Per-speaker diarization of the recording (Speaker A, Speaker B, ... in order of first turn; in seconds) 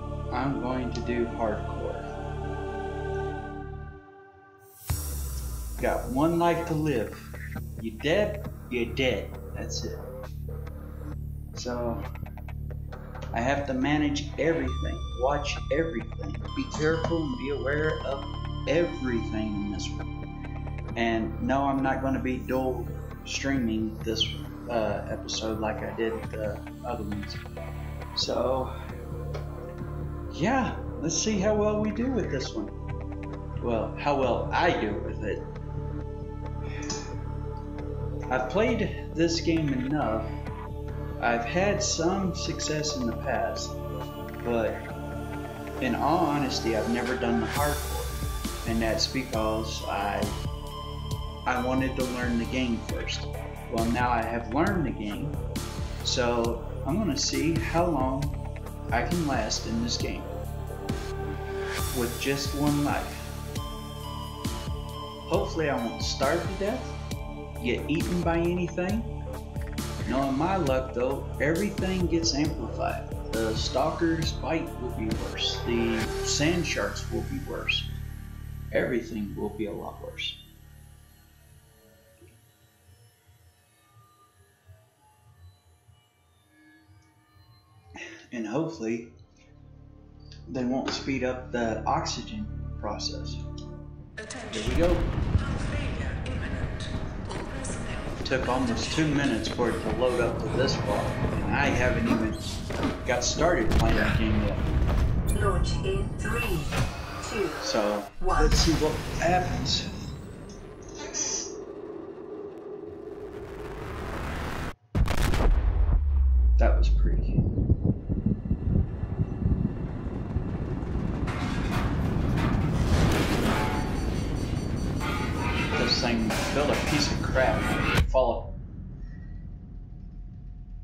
Speaker A: 0.3-2.1, 5.8-10.0, 11.5-12.1, 13.3-20.1, 20.9-27.4, 28.1-28.7, 30.3-32.7, 33.6-35.4, 38.3-40.3, 41.2-43.8, 44.4-44.8, 45.8-50.4, 51.5-55.4, 56.0-58.4, 58.9-60.3, 61.9-63.3, 65.3-66.9, 67.6-69.1, 70.0-77.9, 78.7-80.4, 88.0-89.1, 90.5-93.4, 94.5-95.2, 98.2-102.5, 103.0-104.6, 107.6-109.9, 116.6-117.4, 125.7-128.6
Speaker B: 95.6-96.8, 97.7-98.0, 105.3-107.7, 108.2-108.5